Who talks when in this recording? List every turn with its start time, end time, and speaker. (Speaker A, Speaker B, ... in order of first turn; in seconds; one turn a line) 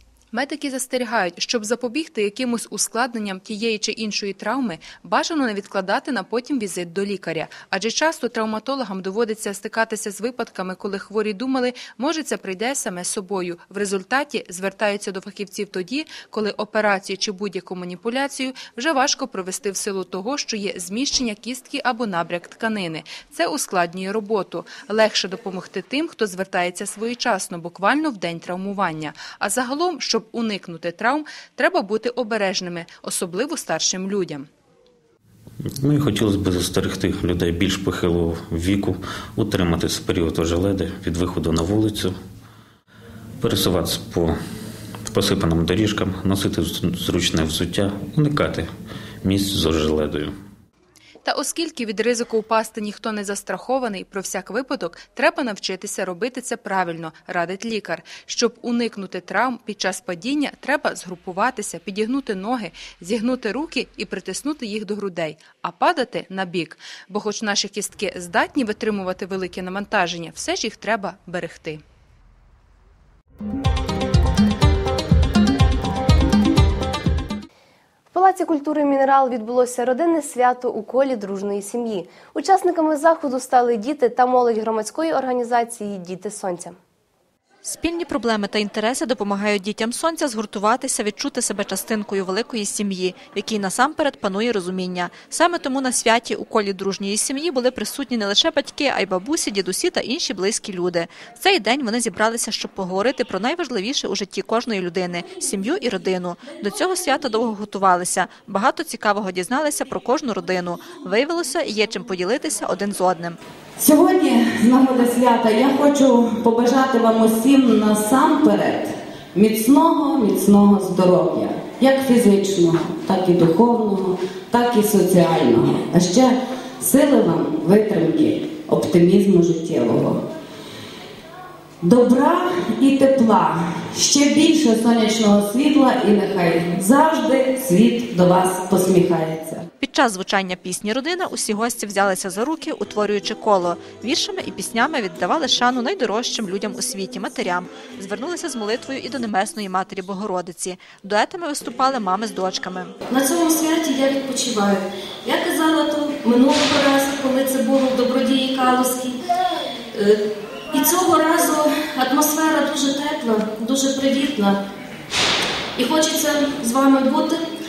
Speaker A: 0.3-34.5
Speaker B: 35.8-42.1
Speaker B: 43.4-44.4
Speaker B: 45.1-48.7
Speaker B: 49.2-50.3
Speaker A: 51.2-71.8
Speaker C: 78.1-86.8
Speaker D: 87.6-113.4
Speaker E: 113.8-130.2
Speaker E: 131.8-139.7
Speaker D: 139.8-152.9
Speaker F: 153.1-159.2
Speaker F: 159.9-164.6
Speaker F: 165.8-167.4